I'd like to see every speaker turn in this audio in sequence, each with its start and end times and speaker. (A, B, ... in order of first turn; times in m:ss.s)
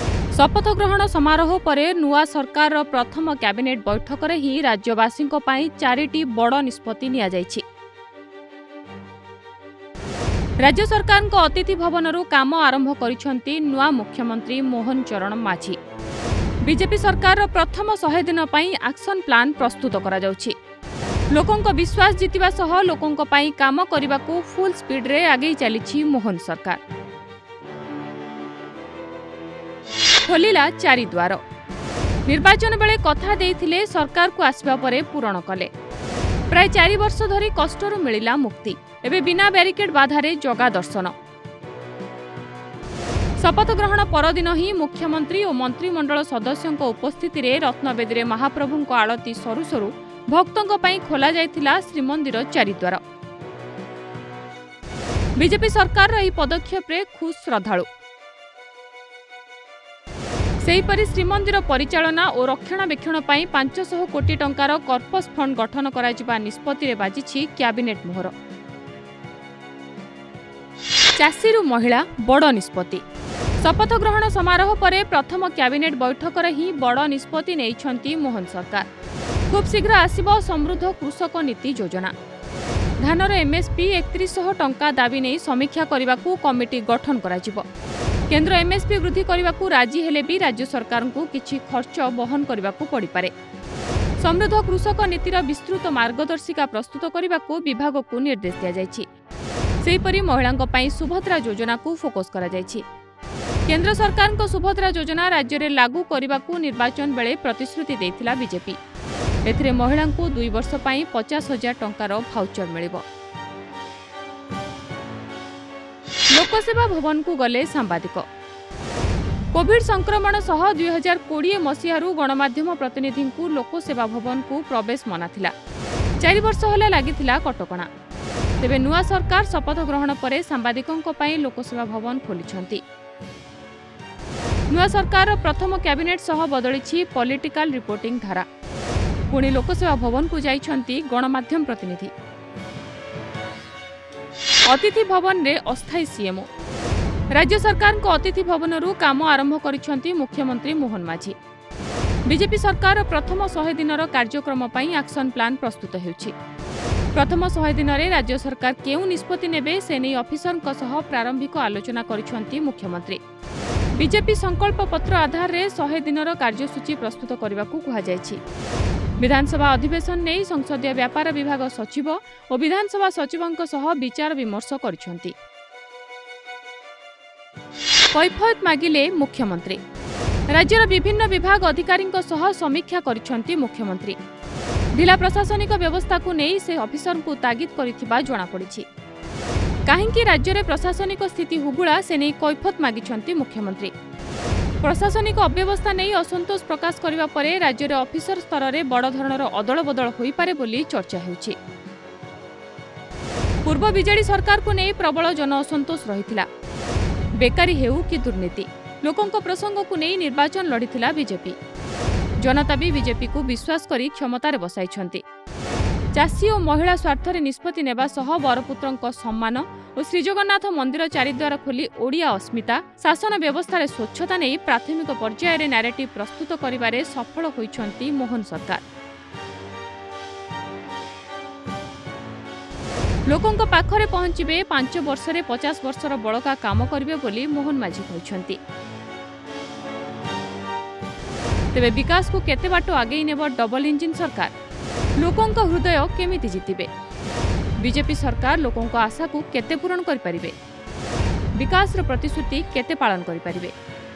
0:00.3-0:07.6 A
0:10.6-0:15.8 A
0:16.6-0:20.5 A
0:21.3-0:26.8 A
0:30.2-0:31.4 A
0:32.3-0:35.7 A
0:36.5-0:41.1 A
0:43.4-0:53.0 A
0:55.4-0:57.9 A
1:00.6-1:08.3 A
1:11.2-1:13.0 A
1:13.6-1:18.9 A
1:19.5-1:22.1 A
1:23.0-1:27.6 A
1:28.3-1:33.3 A
1:34.2-1:39.0 A
1:39.8-1:42.8 A
1:43.7-1:48.8 A
1:49.4-1:53.0 A
1:56.3-1:58.2 A
1:59.5-2:05.5 A
2:06.2-2:07.9 A
2:08.6-2:12.8 A
2:14.7-2:18.4 A
2:19.3-2:22.1 A
2:24.7-2:26.5 A
2:27.3-2:31.4 A
2:32.3-2:36.3 A
2:37.1-2:43.2 A
2:44.0-2:48.4 A
2:49.2-2:55.3 A
2:58.1-2:59.8 A
3:00.5-3:04.2 A
3:05.0-3:08.8 A
3:09.8-3:13.9 A
3:14.8-3:21.6 A
3:23.6-3:26.5 A
3:27.4-3:31.6 A
3:32.4-3:35.2 A
3:36.1-3:48.8 A
3:53.3-3:58.6 A
4:01.7-4:04.5 A
4:05.2-4:06.9 A
4:07.8-4:10.6 A
4:11.6-4:13.7 A